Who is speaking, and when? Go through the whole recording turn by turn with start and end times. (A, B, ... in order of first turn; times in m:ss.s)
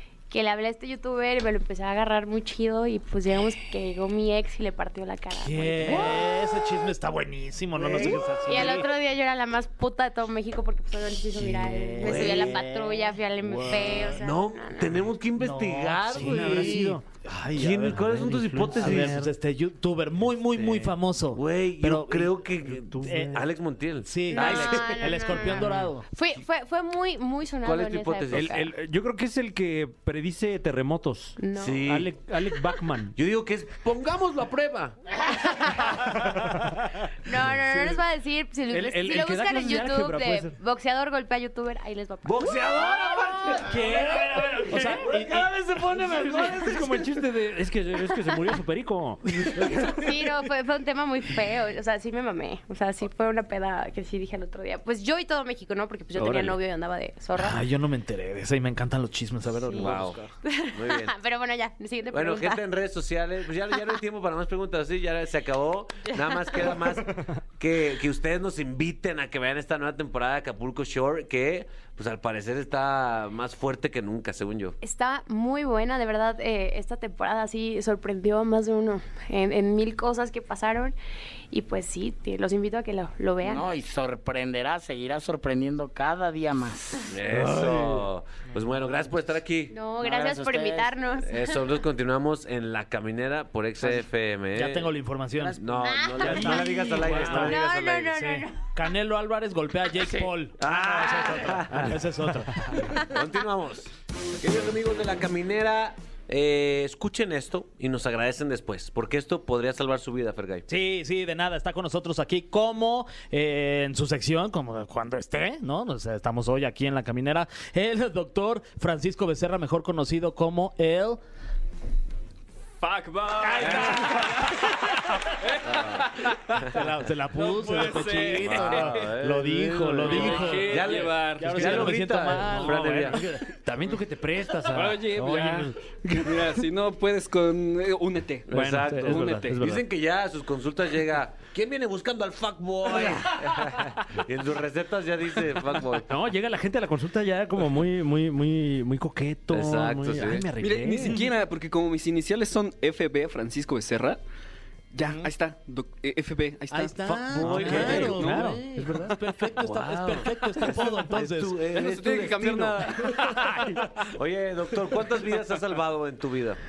0:00.3-0:06.2 A
0:05.3-0:08.8 B
0:05.9-0:06.2 C
0:07.8-0:08.8 C
0:08.0-0:15.1 A
0:11.4-0:14.2 B
0:12.0-0:12.6 C
0:14.1-0:17.0 C
0:15.4-0:22.4 B
0:16.0-0:17.0 D
0:17.5-0:19.2 C
0:18.1-0:19.3 D
0:20.5-0:20.9 D
0:21.3-0:25.4 C
0:22.9-0:23.4 D
0:23.0-0:23.5 B
0:24.0-0:26.0 B
0:24.3-0:28.7 A
0:25.5-0:25.9 D
0:27.6-0:28.5 C
0:28.3-0:33.1 D
0:31.4-0:31.8 A
0:31.6-0:32.1 C
0:32.5-0:32.8 A
0:33.2-0:35.0 C
0:35.2-0:36.1 A
0:36.4-0:36.9 D
0:37.2-0:42.9 A
0:38.7-0:40.5 D
0:42.2-0:46.6 C
0:43.5-0:50.1 D
0:44.7-0:45.4 B
0:49.9-0:57.6 A
0:56.2-0:56.6 C
0:57.4-1:00.3 B
0:59.6-1:02.6 A
0:59.8-1:00.2 C
1:00.7-1:01.1 C
1:02.1-1:14.8 C
1:06.1-1:06.8 A
1:14.8-1:21.0 A
1:21.5-1:23.7 A
1:23.4-1:27.1 E
1:27.1-1:29.7 C
1:27.4-1:28.0 B
1:27.5-1:27.8 D
1:29.7-1:31.8 A
1:30.0-1:30.9 E
1:31.2-1:34.9 C
1:34.5-1:35.6 B
1:35.4-1:38.6 A
1:35.6-1:38.3 C
1:36.2-1:37.6 B
1:38.2-1:42.9 B
1:40.0-1:40.3 E
1:40.6-1:42.0 C
1:42.6-1:50.6 C
1:42.8-1:43.2 A
1:50.7-2:01.2 B
2:02.8-2:06.8 F
2:03.4-2:04.7 B
2:05.6-2:06.0 C
2:06.7-2:10.8 B
2:07.3-2:09.1 F
2:08.3-2:13.2 C
2:10.0-2:12.0 F
2:11.4-2:13.5 B
2:11.7-2:16.6 D
2:14.7-2:19.6 F
2:18.5-2:26.1 C
2:18.5-2:19.8 D
2:26.1-2:31.2 D
2:29.5-2:30.5 C
2:30.6-2:34.2 F
2:34.9-2:39.1 F
2:36.7-2:41.6 B
2:37.1-2:39.1 D
2:37.4-2:38.3 C
2:39.6-2:43.1 C
2:41.7-2:43.8 F
2:44.1-2:46.6 C